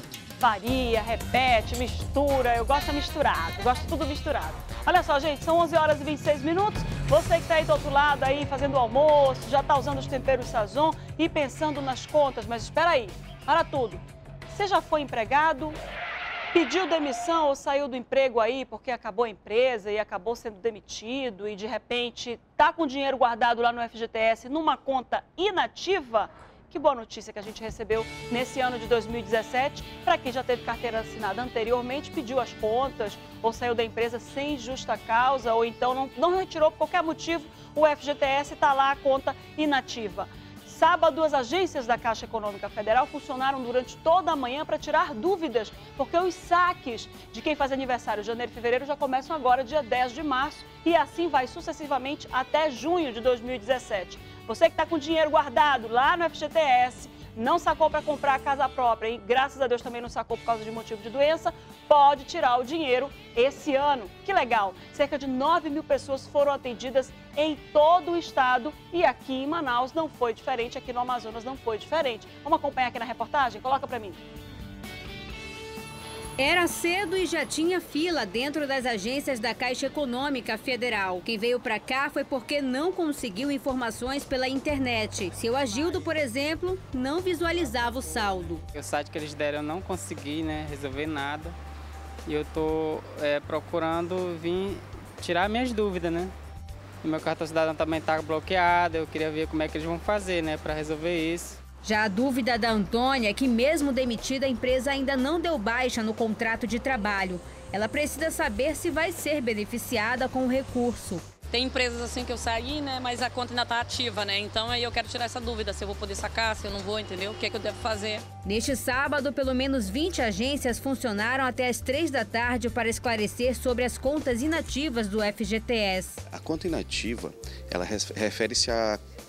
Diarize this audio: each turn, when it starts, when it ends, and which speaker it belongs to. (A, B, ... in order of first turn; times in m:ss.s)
0:00.4-0:15.8 A
0:16.5-1:14.2 A
1:16.4-1:28.6 B
1:28.7-1:31.6 C
1:32.3-1:36.3 C
1:37.0-1:41.6 C
1:41.8-1:51.3 B
1:51.5-1:58.2 D
1:58.4-2:06.2 B
2:06.3-2:09.0 E